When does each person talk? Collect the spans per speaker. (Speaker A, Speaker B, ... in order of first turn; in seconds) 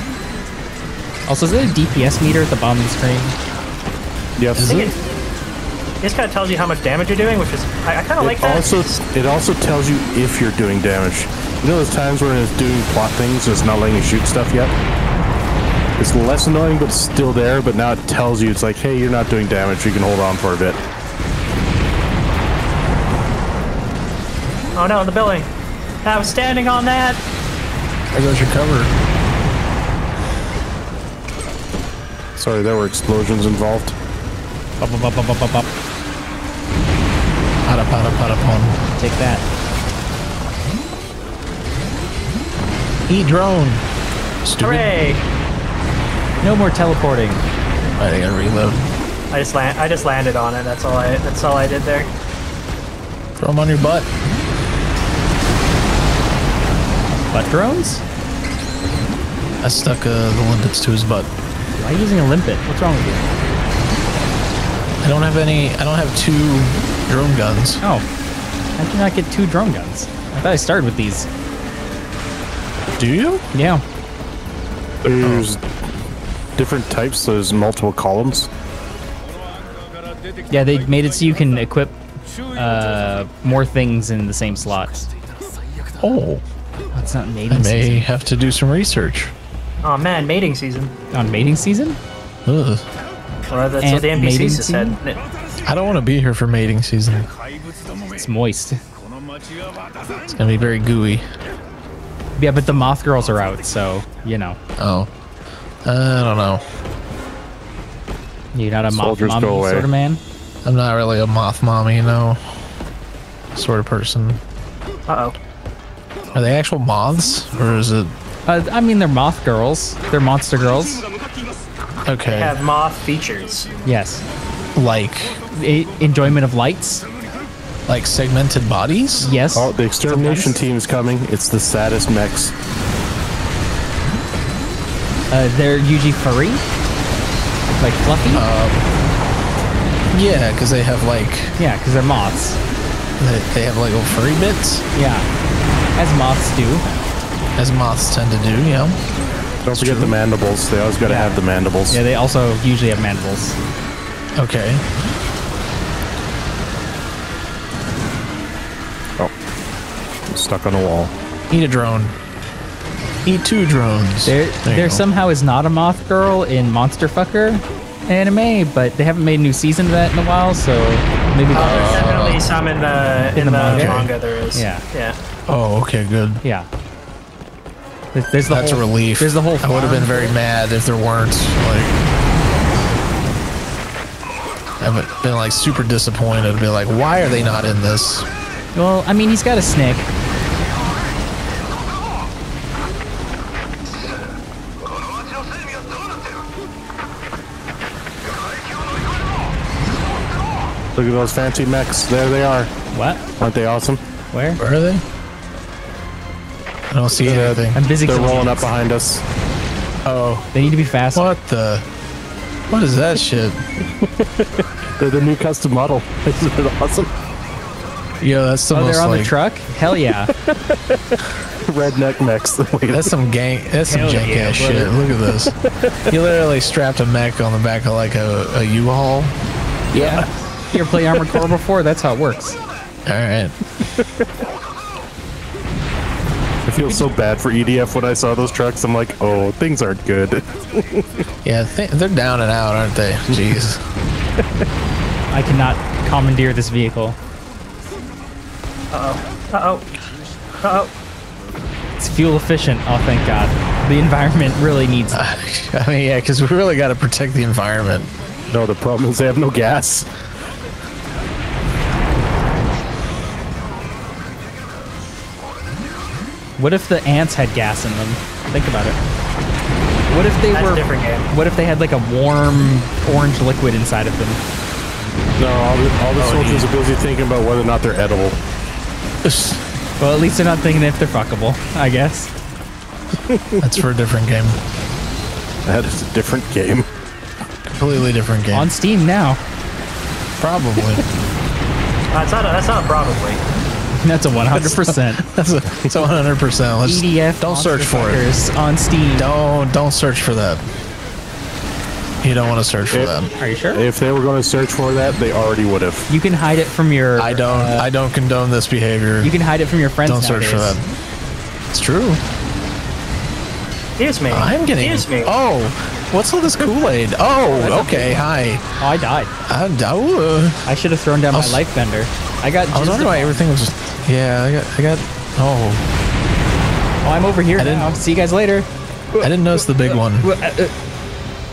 Speaker A: 1.3-3.4, 34.8-35.7, 39.0-39.4, 46.4-47.4, 57.1-58.0, 61.8-63.3, 68.8-71.3, 73.5-73.8, 80.5-82.0, 82.5-85.1, 86.9-88.1, 91.1-92.0, 93.8-95.0, 98.1-98.8, 102.4-104.6, 108.5-110.2, 118.5-121.1, 123.8-124.2, 125.5-127.1, 129.2-130.6, 135.3-136.6, 137.7-138.4, 141.6-142.6, 144.9-145.3, 146.0-146.9, 151.0-153.6, 164.2-172.1, 173.3-174.8, 176.4-176.7, 178.1-180.3, 188.7-190.1, 202.9-203.2, 204.3-204.6, 207.7-208.7, 210.5-211.3, 218.7-220.3, 223.8-224.9, 229.9-232.6, 236.8-237.1, 245.3-247.2, 252.0-255.2, 266.6-269.0, 270.1-274.4, 280.0-282.3, 288.5-289.4, 294.0-295.2, 296.8-299.3, 303.4-303.9, 306.1-307.9, 309.2-310.8, 317.4-318.2, 318.8-319.3, 320.6-323.4, 327.0-330.7
Speaker B: 4.4-4.7, 8.2-14.7, 16.0-20.8, 32.4-34.0, 75.0-75.6, 76.6-78.5, 108.9-109.9, 129.5-132.5, 149.7-152.0, 160.3-161.1, 201.0-202.7, 203.4-204.0, 207.2-209.2, 214.0-217.1, 220.4-223.1, 225.4-225.9, 229.9-230.2, 231.1-231.4, 236.7-241.2, 258.5-260.1, 275.4-278.4, 285.6-286.9, 303.7-306.1
Speaker C: 4.5-4.9, 28.1-28.9, 37.7-38.8, 43.1-43.8, 44.4-44.9, 48.0-48.9, 53.4-54.1, 59.6-61.3, 65.0-67.8, 73.0-73.4, 75.2-75.5, 86.0-86.4, 87.5-89.3, 92.5-92.8, 95.6-97.3, 100.3-101.3, 104.8-105.1, 105.8-106.6, 110.6-112.4, 113.5-114.4, 116.3-118.2, 122.0-122.6, 124.8-125.4, 127.9-129.4, 138.3-138.9, 140.1-141.6, 143.2-144.9, 147.6-149.0, 149.7-150.2, 154.4-154.8, 161.5-162.2, 163.2-165.0, 171.5-172.4, 173.6-174.1, 175.5-176.4, 178.5-182.0, 184.8-188.3, 204.6-205.0, 206.9-207.8, 210.1-210.5, 211.2-211.9, 212.7-213.6, 218.2-219.3, 222.9-225.5, 226.1-229.4, 233.1-233.6, 241.4-243.8, 255.1-258.1, 276.2-276.7, 279.2-279.6, 283.6-284.6, 287.7-288.7, 290.4-291.1, 294.5-298.2, 299.2-300.6, 302.2-303.3, 307.2-309.3, 310.1-310.8, 311.7-312.2, 314.3-318.7, 319.4-320.7, 321.3-321.6, 322.7-325.9, 327.6-328.0, 329.2-330.3
Speaker D: 4.6-5.0, 6.0-9.0, 24.8-25.5, 26.0-27.2, 44.6-45.2, 49.3-52.1, 89.8-90.9, 93.5-95.2, 115.1-115.4, 122.3-123.7, 171.5-175.2, 248.9-249.9, 250.6-250.9, 270.5-271.3, 292.1-293.4, 314.0-315.3